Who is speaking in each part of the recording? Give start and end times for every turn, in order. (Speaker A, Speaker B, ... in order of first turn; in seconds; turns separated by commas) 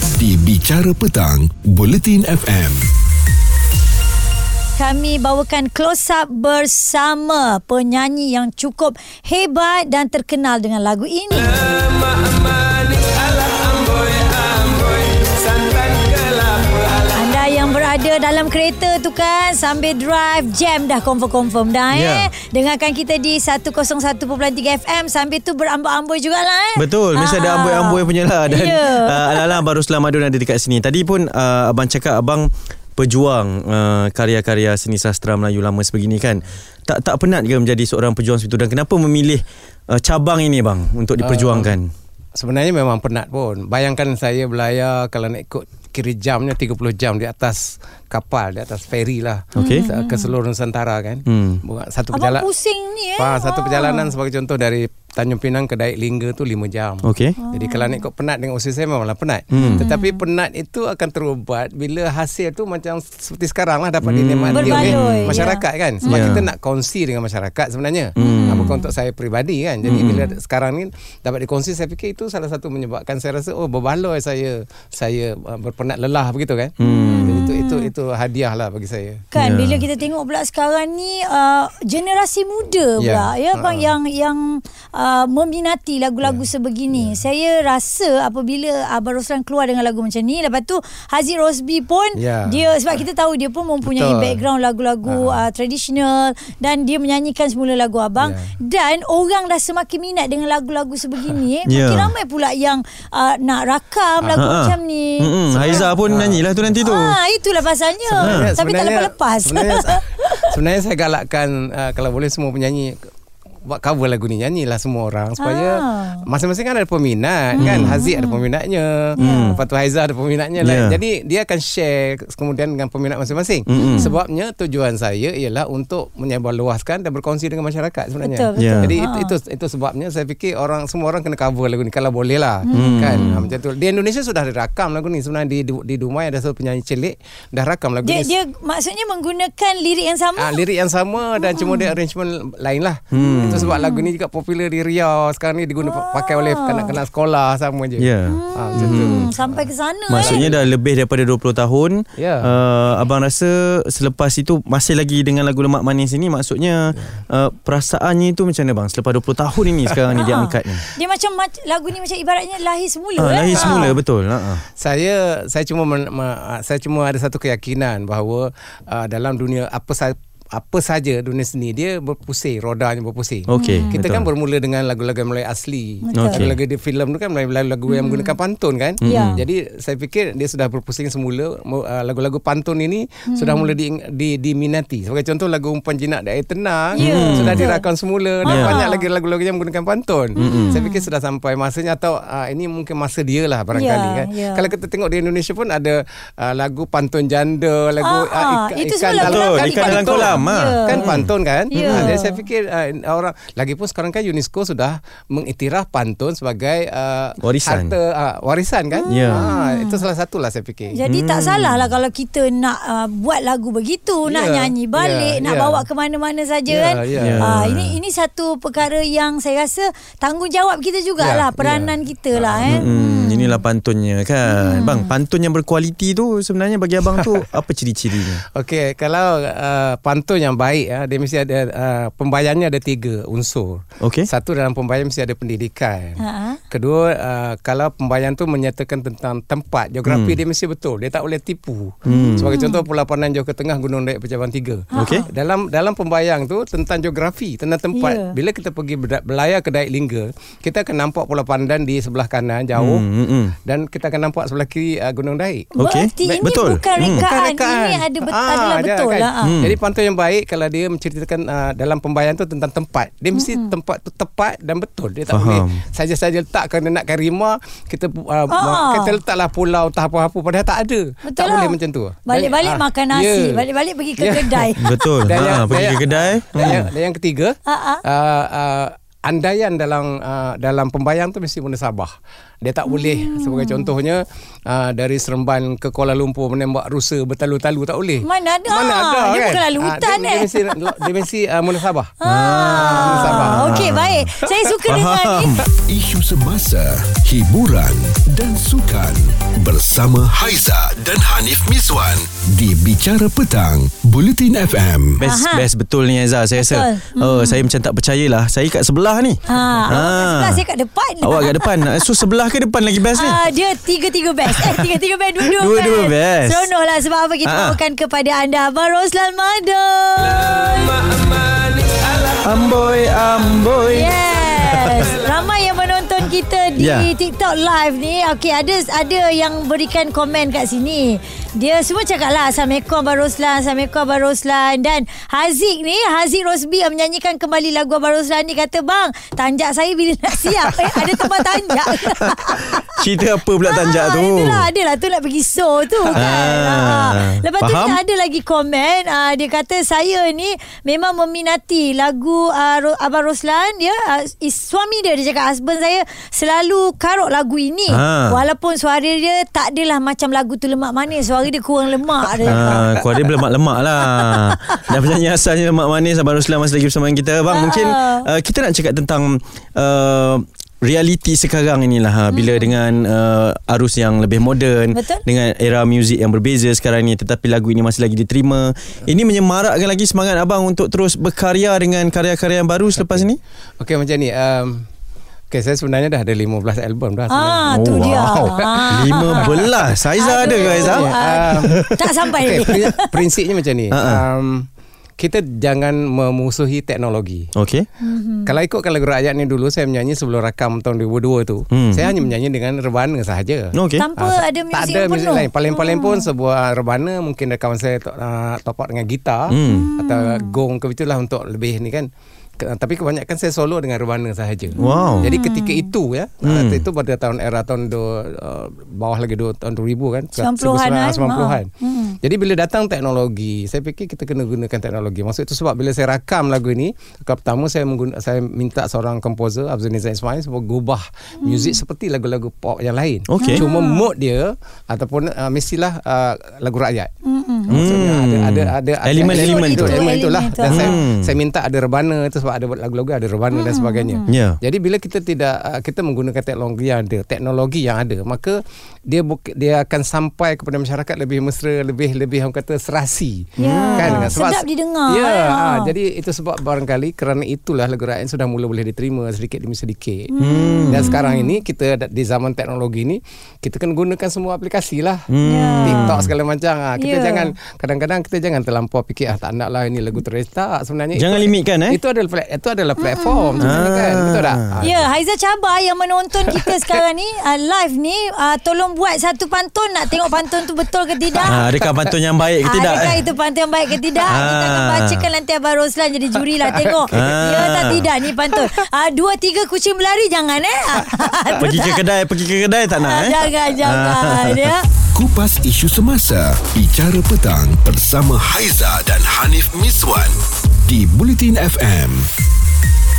Speaker A: 0.1-2.9, Speaker B: 4.8-11.7, Speaker B: 17.1-29.6, Speaker C: 21.9-22.3, Speaker C: 26.8-41.9, Speaker D: 41.2-41.8, Speaker D: 42.4-52.5, Speaker C: 49.6-49.9, Speaker B: 49.6-50.3, Speaker C: 51.3-51.6, Speaker B: 52.1-54.1, Speaker D: 53.2-79.2, Speaker C: 57.0-57.4, Speaker B: 57.4-58.0, Speaker C: 59.5-59.9, Speaker B: 59.6-60.2, Speaker C: 64.0-65.4, Speaker B: 64.5-66.4, Speaker C: 66.0-66.4, Speaker C: 68.2-68.8, Speaker B: 68.2-68.8, Speaker C: 69.8-70.3, Speaker C: 76.8-77.5, Speaker B: 76.8-77.9, Speaker B: 79.3-105.9, Speaker C: 79.4-79.8, Speaker D: 83.0-83.9, Speaker D: 86.2-87.2, Speaker D: 92.2-92.7, Speaker D: 93.8-94.4, Speaker D: 95.1-95.4, Speaker D: 98.2-98.5, Speaker C: 101.7-102.1, Speaker D: 104.2-104.5, Speaker C: 104.4-107.2, Speaker D: 105.5-106.9, Speaker B: 106.8-110.5, Speaker D: 108.1-113.0, Speaker C: 108.2-108.5, Speaker D: 113.7-138.3, Speaker B: 115.4-116.2, Speaker B: 117.5-118.4, Speaker C: 117.6-118.0, Speaker C: 119.2-119.6, Speaker B: 119.2-119.6, Speaker C: 120.6-121.0, Speaker C: 123.7-124.1, Speaker B: 128.2-129.3, Speaker C: 128.6-128.9, Speaker B: 132.7-133.4, Speaker C: 132.7-133.4, Speaker B: 138.0-140.6, Speaker D: 140.4-150.7, Speaker B: 141.4-141.9, Speaker C: 143.1-143.7, Speaker B: 143.2-144.1, Speaker B: 145.8-146.9, Speaker C: 148.0-149.3, Speaker B: 148.3-150.5, Speaker C: 150.1-160.8, Speaker D: 152.2-152.5, Speaker B: 160.2-163.9, Speaker C: 163.2-164.6, Speaker D: 163.5-163.9, Speaker D: 164.8-211.0, Speaker C: 173.5-174.3, Speaker B: 173.5-174.0, Speaker B: 176.1-176.4, Speaker C: 176.1-176.6, Speaker B: 177.9-178.3, Speaker C: 179.0-179.4, Speaker B: 179.0-179.4, Speaker B: 183.3-183.7, Speaker B: 187.0-187.8, Speaker C: 187.0-187.6, Speaker B: 188.4-189.1, Speaker C: 188.5-188.8, Speaker B: 190.4-191.0, Speaker C: 190.4-190.8, Speaker B: 193.8-194.7, Speaker B: 198.0-201.1, Speaker C: 199.1-202.2, Speaker B: 201.7-202.4, Speaker C: 207.4-207.9, Speaker B: 208.9-210.0, Speaker C: 209.1-209.5, Speaker B: 210.9-223.6, Speaker C: 211.1-211.9, Speaker D: 214.3-215.9, Speaker D: 216.7-217.5, Speaker C: 217.2-217.9, Speaker D: 221.2-222.9, Speaker C: 222.6-228.4, Speaker B: 224.5-225.1, Speaker D: 228.5-253.1, Speaker C: 234.0-234.3, Speaker B: 236.2-236.6, Speaker C: 240.1-240.4, Speaker B: 242.1-242.8, Speaker C: 242.1-242.6, Speaker B: 244.9-245.3, Speaker C: 244.9-245.2, Speaker B: 247.9-248.3, Speaker C: 252.8-253.6, Speaker D: 253.7-255.7, Speaker B: 255.8-259.6, Speaker C: 255.8-257.3, Speaker D: 256.2-273.6, Speaker C: 259.4-259.8, Speaker B: 263.4-263.7, Speaker C: 265.3-265.8, Speaker B: 268.5-269.2, Speaker B: 271.3-275.3, Speaker D: 274.2-274.7, Speaker C: 274.8-276.9, Speaker D: 275.2-282.1, Speaker B: 277.7-278.0, Speaker D: 282.6-292.1, Speaker B: 282.9-283.9, Speaker B: 288.2-291.0, Speaker B: 292.2-295.6, Speaker C: 292.2-294.3, Speaker D: 292.7-293.9, Speaker C: 294.9-295.6, Speaker A: 295.8-305.2, Speaker C: 305.2-310.6, Speaker B: 305.2-305.7, Speaker B: 306.6-307.6, Speaker B: 309.5-312.1, Speaker C: 311.2-313.5, Speaker B: 313.1-321.1, Speaker C: 314.5-316.7, Speaker C: 317.4-317.8, Speaker C: 322.4-325.1, Speaker B: 323.9-342.9, Speaker C: 326.8-327.1, Speaker C: 342.3-344.7, Speaker B: 343.7-363.0, Speaker C: 346.1-348.0, Speaker C: 357.9-358.4, Speaker C: 362.5-383.4, Speaker D: 362.5-362.9, Speaker B: 364.0-364.9, Speaker B: 367.5-368.3, Speaker B: 372.3-372.7, Speaker B: 374.9-375.2, Speaker D: 383.8-384.8, Speaker D: 385.5-387.9, Speaker B: 387.3-393.2, Speaker C: 387.7-392.7, Speaker D: 388.5-391.9, Speaker D: 392.4-394.7, Speaker C: 393.9-394.2, Speaker D: 395.2-397.5, Speaker C: 397.6-397.9, Speaker B: 398.0-398.5, Speaker D: 398.5-412.1, Speaker C: 401.7-402.0, Speaker C: 403.7-404.1, Speaker B: 404.0-406.2, Speaker C: 409.5-409.9, Speaker B: 409.6-410.5, Speaker D: 412.6-421.7, Speaker B: 414.8-415.9, Speaker C: 414.8-415.3, Speaker C: 416.4-416.8, Speaker B: 420.4-422.2, Speaker D: 422.2-437.1, Speaker B: 431.4-431.8, Speaker C: 433.3-433.6, Speaker B: 433.4-434.1, Speaker B: 437.2-437.9, Speaker D: 437.7-460.3, Speaker C: 437.7-440.1, Speaker B: 439.2-441.0, Speaker C: 440.6-441.3, Speaker B: 443.5-444.3, Speaker C: 444.3-444.6, Speaker B: 453.6-455.9, Speaker C: 453.6-454.3, Speaker B: 460.3-461.5, Speaker C: 460.4-461.1, Speaker D: 460.9-465.3, Speaker C: 465.3-466.3, Speaker B: 465.4-466.2, Speaker D: 465.8-475.1, Speaker B: 467.0-467.5, Speaker C: 471.1-472.0, Speaker B: 473.0-473.9, Speaker C: 473.6-474.6, Speaker B: 474.8-481.6, Speaker D: 476.5-477.0, Speaker D: 481.4-482.0, Speaker C: 481.5-483.2, Speaker B: 482.6-491.9, Speaker C: 484.3-485.2, Speaker D: 486.6-487.8, Speaker C: 487.1-488.1, Speaker D: 491.1-491.5, Speaker C: 491.6-494.7, Speaker B: 493.0-494.8, Speaker A: 495.1-502.3